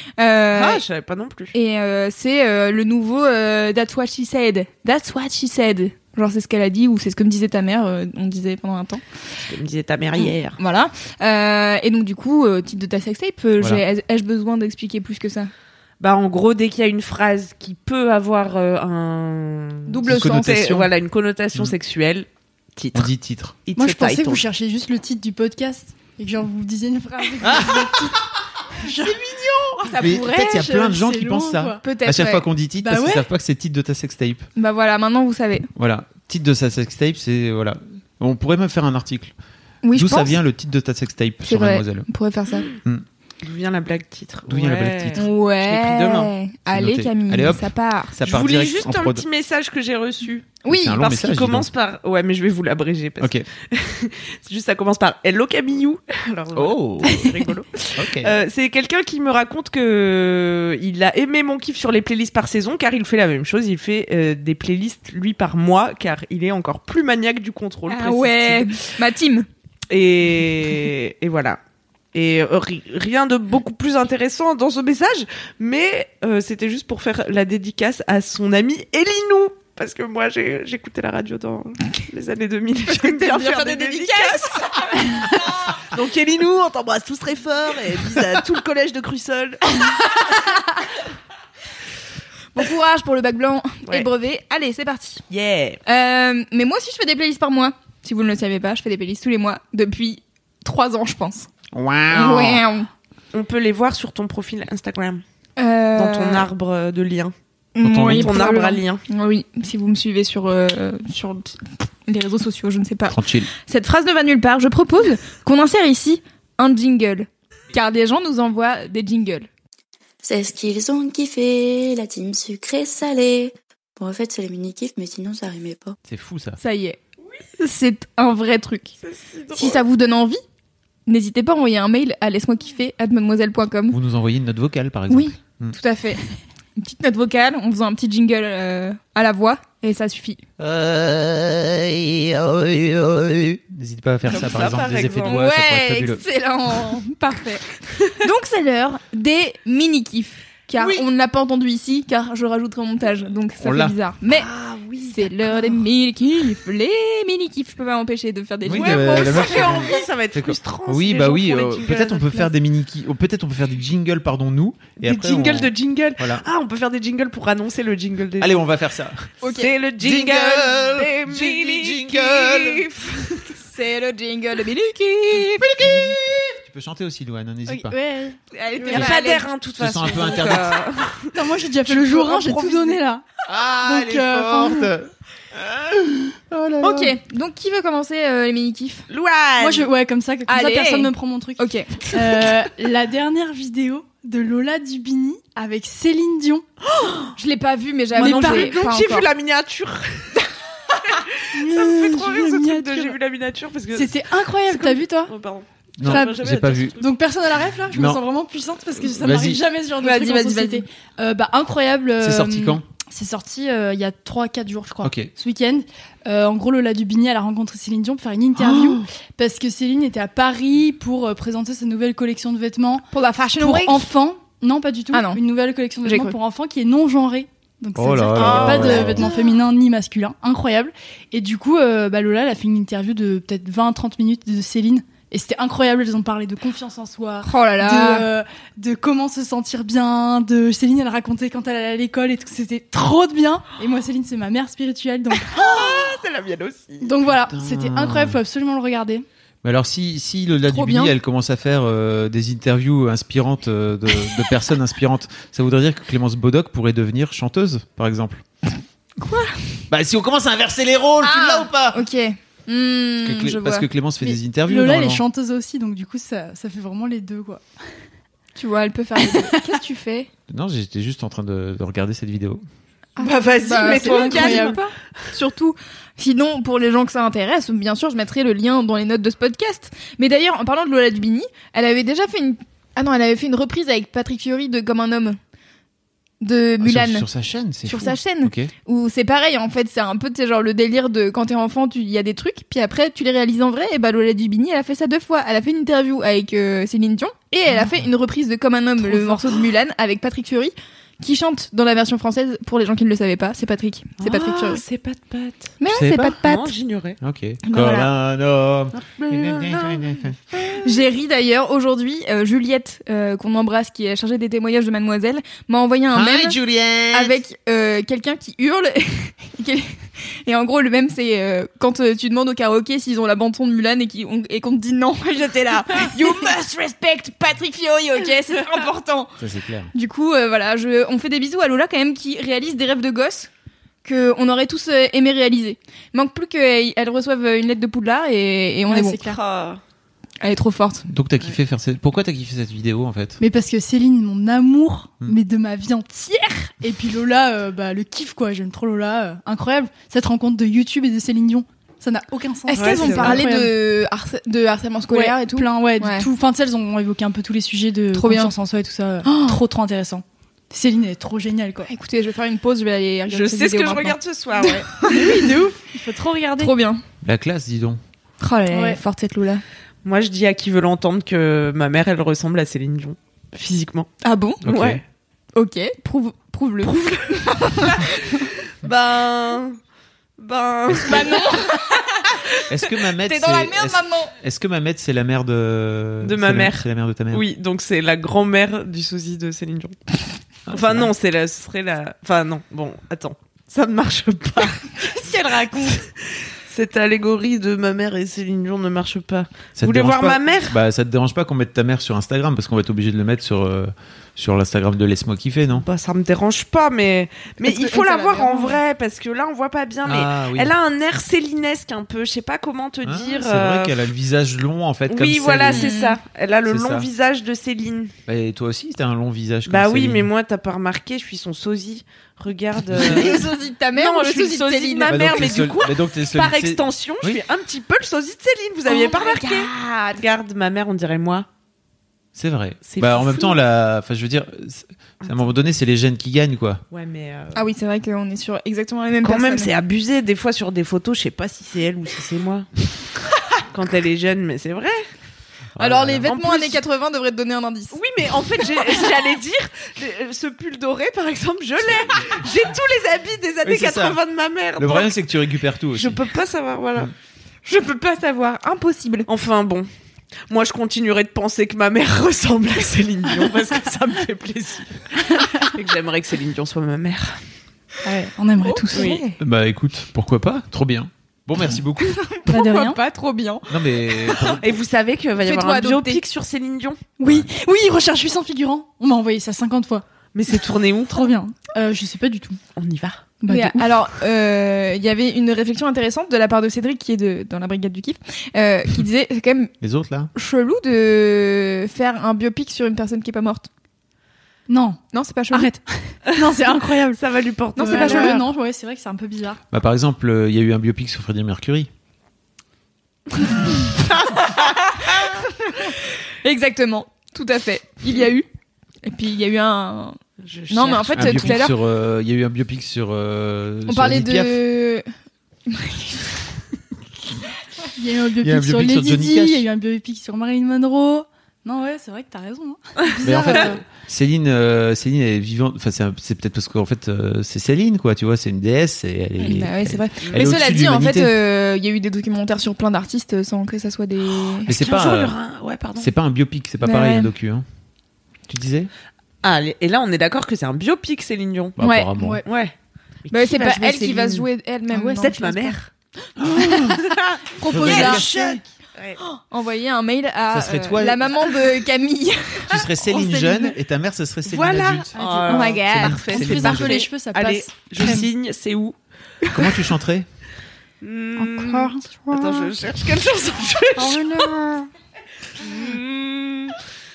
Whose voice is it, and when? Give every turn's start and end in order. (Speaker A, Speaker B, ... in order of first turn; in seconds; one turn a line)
Speaker A: 0.2-0.8
Speaker B: 0.5-1.5
Speaker A: 1.5-9.0
Speaker B: 9.4-10.6
Speaker A: 10.2-15.5
Speaker B: 16.0-23.1
Speaker A: 19.9-20.4
Speaker C: 20.1-20.9
Speaker C: 22.9-23.6
Speaker B: 23.6-24.4
Speaker D: 23.8-28.2
Speaker C: 27.4-28.2
Speaker D: 28.8-29.2
Speaker A: 29.6-30.7
Speaker C: 30.0-34.5
Speaker D: 30.4-31.8
Speaker A: 31.8-32.4
Speaker D: 32.8-33.3
Speaker A: 34.5-35.7
Speaker C: 35.8-39.3
Speaker A: 39.8-40.4
Speaker C: 39.9-42.1
Speaker A: 41.4-42.7
Speaker B: 43.4-46.3
Speaker C: 44.5-45.3
Speaker A: 45.2-48.1
Speaker C: 46.7-49.2
Speaker B: 48.2-68.8
Speaker A: 50.6-51.0
Speaker C: 50.7-51.7
Speaker C: 53.2-53.5
Speaker C: 56.5-57.2
Speaker C: 58.0-58.3
Speaker A: 67.9-69.5
Speaker B: 69.9-71.6
Speaker B: 72.1-89.8
Speaker A: 82.8-85.5
Speaker A: 92.5-95.2
Speaker B: 95.3-95.8
Speaker A: 95.8-101.5
Speaker C: 101.7-102.6
Speaker A: 102.1-102.9
Speaker B: 103.3-105.2
Speaker A: 105.6-106.5
Speaker B: 106.0-107.3
Speaker A: 107.8-119.5
Speaker C: 107.8-108.4
Speaker B: 108.1-109.0
Speaker C: 113.1-113.5
Speaker E: 120.2-126.0
Speaker C: 126.0-126.6
Speaker A: 126.6-127.0
Speaker A: 127.6-128.9
Speaker B: 129.0-129.8
Speaker A: 129.5-130.4
Speaker A: 131.1-134.0
Speaker C: 133.9-135.8
Speaker A: 135.1-136.2
Speaker A: 136.8-140.4
Speaker C: 140.6-146.2
Speaker B: 144.3-145.4
Speaker A: 145.2-154.5
Speaker B: 150.8-151.1
Speaker C: 153.6-153.9
Speaker B: 154.3-155.7
Speaker A: 155.1-159.9
Speaker C: 158.6-166.4
Speaker B: 158.7-162.5
Speaker B: 165.0-168.6
Speaker C: 168.4-169.3
Speaker A: 169.4-169.7
Speaker B: 169.4-173.5
Speaker C: 170.0-172.8
Speaker A: 173.6-176.0
Speaker C: 175.5-178.0
Speaker D: 177.7-179.1
Speaker A: 178.5-179.5
Speaker B: 178.9-183.0
Speaker C: 179.8-180.8
Speaker A: 180.0-180.9
Speaker D: 181.3-183.2
Speaker C: 183.5-187.2
Speaker D: 183.8-184.9
Speaker A: 186.8-189.1
Speaker B: 189.1-189.9
Speaker D: 189.6-196.7
Speaker A: 190.5-192.1
Speaker B: 196.9-197.3
Speaker A: 197.3-199.3
Speaker B: 198.1-200.3
Speaker D: 198.2-198.8
Speaker B: 201.4-207.0
Speaker D: 201.5-203.2
Speaker D: 203.9-205.3
Speaker C: 206.0-207.0
Speaker D: 206.0-223.1
Speaker C: 207.9-208.2
Speaker C: 209.1-209.6
Speaker A: 210.0-210.8
Speaker C: 212.2-212.8
Speaker C: 215.0-215.3
Speaker C: 218.6-219.0
Speaker A: 223.1-224.1
Speaker D: 223.6-246.1
Speaker A: 225.1-225.4
Speaker A: 226.0-226.3
Speaker C: 227.9-229.3
Speaker A: 228.4-229.3
Speaker A: 237.4-238.3
Speaker B: 245.4-247.1
Speaker D: 247.0-249.2
Speaker C: 247.5-248.4
Speaker C: 249.6-258.4
Speaker A: 250.7-251.1
Speaker A: 259.2-259.6
Speaker C: 259.9-262.0
Speaker A: 261.2-263.9
Speaker C: 263.2-265.2
Speaker D: 264.2-267.6
Speaker A: 268.6-270.3
Speaker D: 269.2-269.8
Speaker C: 270.5-272.6
Speaker B: 273.2-274.8
Speaker A: 273.2-285.4
Speaker D: 273.8-274.8
Speaker A: 286.4-287.2
Speaker C: 286.8-288.7
Speaker A: 287.9-304.8
Speaker D: 299.1-299.4
Speaker B: 304.2-305.7
Speaker A: 305.8-306.7
Speaker C: 305.9-306.4
Speaker B: 306.4-307.2
Speaker C: 307.2-310.4
Speaker A: 307.6-308.1
Speaker B: 309.0-310.8
Speaker A: 310.8-316.6
Speaker C: 316.1-317.4
Speaker A: 317.1-329.4
Speaker C: 329.4-329.9
Speaker A: 329.9-333.5
Speaker A: 334.0-339.2
Speaker D: 338.9-339.4
Speaker B: 339.2-339.8
Speaker A: 340.4-341.1
Speaker C: 341.1-343.4
Speaker D: 343.4-353.8
Speaker A: 352.7-356.3
Speaker B: 352.7-353.4
Speaker D: 355.1-361.9
Speaker A: 358.1-358.5
Speaker A: 359.2-359.6
Speaker A: 361.8-365.5
Speaker B: 363.3-365.1
Speaker D: 365.0-366.8
Speaker A: 366.6-367.0
Speaker C: 367.2-368.0
Speaker A: 368.4-369.6
Speaker D: 368.7-369.0
Speaker B: 370.0-374.1
Speaker A: 374.2-374.8
Speaker C: 374.6-375.0
Speaker B: 374.6-375.0
Speaker A: 375.5-378.4
Speaker B: 376.8-378.1
Speaker B: 378.6-379.8
Speaker B: 380.4-381.6
Speaker A: 381.0-382.2
Speaker C: 382.7-387.4
Speaker A: 383.2-384.3
Speaker B: 386.2-390.0
Speaker C: 390.7-391.1
Speaker B: 390.7-400.8
Speaker A: 395.0-396.0
Speaker C: 399.8-405.8
Speaker B: 405.7-413.9
Speaker A: 407.6-408.8
Speaker C: 410.0-410.8
Speaker C: 413.0-415.9
Speaker B: 415.1-418.1
Speaker A: 415.7-416.2
Speaker C: 416.7-417.1
Speaker C: 418.3-420.3
Speaker B: 419.7-431.5
Speaker C: 422.9-423.3
Speaker A: 423.0-425.3
Speaker C: 425.1-427.4
Speaker A: 428.9-430.2
Speaker C: 432.3-436.8
Speaker B: 432.8-433.6
Speaker B: 436.9-437.7
Speaker A: 437.5-439.7
Speaker B: 439.2-442.7
Speaker B: 443.7-445.0
Speaker C: 445.8-446.8
Speaker A: 445.8-448.0
Speaker B: 447.9-455.2
Speaker C: 453.6-454.2
Speaker C: 454.8-456.2
Speaker B: 455.9-457.1
Speaker A: 457.6-459.3
Speaker B: 459.3-459.9
Speaker B: 460.5-467.4
Speaker D: 468.0-469.2
Speaker A: 468.6-469.3
Speaker B: 468.9-469.2
Speaker C: 469.4-472.3
Speaker A: 472.2-474.6
Speaker D: 472.5-473.0
Speaker C: 473.7-474.7
Speaker B: 474.5-477.0
Speaker A: 475.4-476.2
Speaker D: 477.2-480.0
Speaker C: 477.2-477.5
Speaker B: 480.3-481.3
Speaker D: 481.1-482.6
Speaker B: 482.8-483.2
Speaker D: 483.4-483.9
Speaker A: 483.5-489.7
Speaker C: 489.8-490.3
Speaker A: 490.3-493.7
Speaker D: 494.7-495.0
Speaker A: 495.1-495.7
Speaker D: 495.5-497.2
Speaker B: 496.3-498.4
Speaker A: 497.8-498.4
Speaker D: 497.8-499.6
Speaker C: 499.7-501.9
Speaker A: 504.3-508.4
Speaker A: 509.0-510.2
Speaker B: 510.4-511.6
Speaker A: 510.7-511.7
Speaker C: 511.1-514.6
Speaker A: 513.9-515.1
Speaker A: 515.7-516.3
Speaker D: 517.9-523.8
Speaker C: 518.4-519.6
Speaker C: 523.2-531.3
Speaker A: 529.4-534.7
Speaker B: 530.2-530.5
Speaker B: 534.6-536.1
Speaker C: 534.7-535.4
Speaker C: 536.0-537.6
Speaker A: 536.8-537.3
Speaker C: 538.5-538.9
Speaker B: 539.4-541.8
Speaker C: 541.8-542.4
Speaker A: 541.8-542.1
Speaker D: 542.1-542.5
Speaker B: 542.4-542.7
Speaker B: 543.2-544.4
Speaker A: 543.3-545.8
Speaker D: 543.6-545.1
Speaker B: 545.1-545.9
Speaker C: 546.4-547.0
Speaker B: 546.7-549.2
Speaker D: 547.6-548.3
Speaker C: 547.7-548.6
Speaker A: 549.2-552.7
Speaker C: 550.5-551.3
Speaker C: 552.7-555.2
Speaker D: 553.2-553.6
Speaker B: 554.5-558.9
Speaker D: 555.1-558.3
Speaker A: 555.5-556.3
Speaker C: 555.7-556.9
Speaker C: 559.5-560.3
Speaker B: 561.0-564.5
Speaker D: 561.4-562.4
Speaker D: 564.0-564.9
Speaker B: 565.6-566.8